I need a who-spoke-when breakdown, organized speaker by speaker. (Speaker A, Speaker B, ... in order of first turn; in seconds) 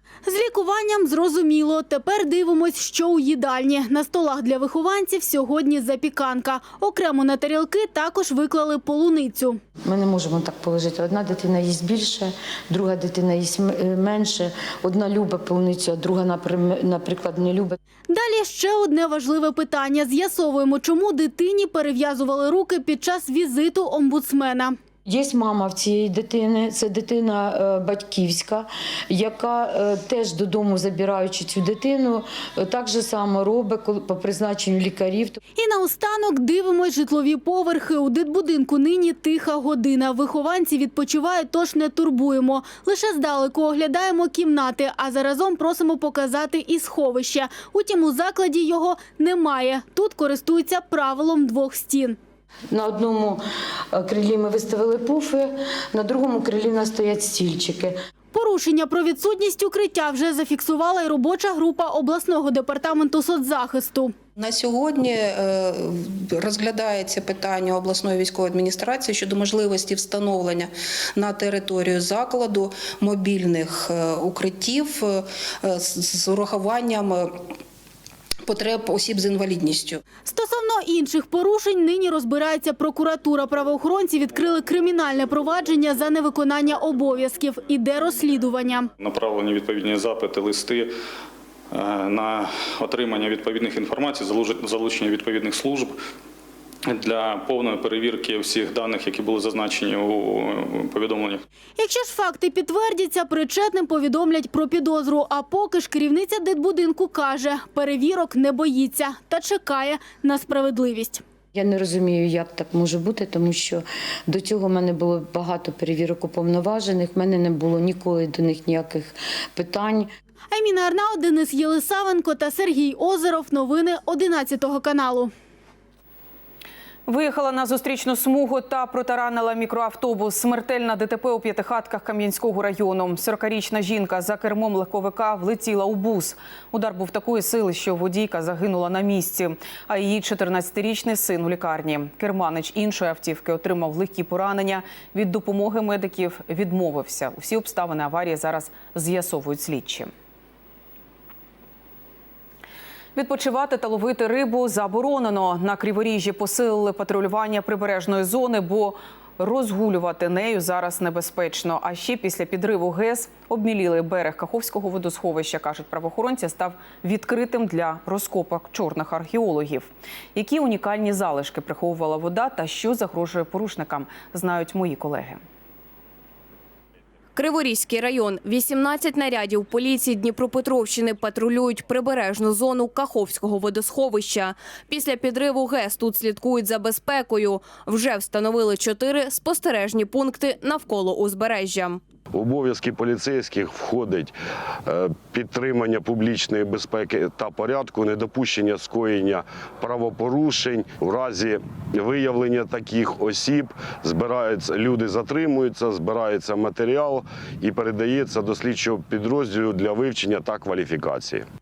Speaker A: 0.3-9.6, 18.1-24.8, 35.6-52.2, 58.3-64.2, 80.2-88.9, 101.8-111.2, 120.5-125.3
Speaker B: 9.8-17.8, 25.1-35.4, 52.7-53.4, 53.9-58.0, 111.5-120.1
Speaker C: 64.4-77.5, 78.5-80.0
Speaker D: 89.0-90.9, 91.7-96.0, 96.9-101.4
Speaker E: 127.1-150.1, 153.2-175.4
Speaker F: 177.4-192.0
Speaker G: 192.3-194.3, 194.9-211.4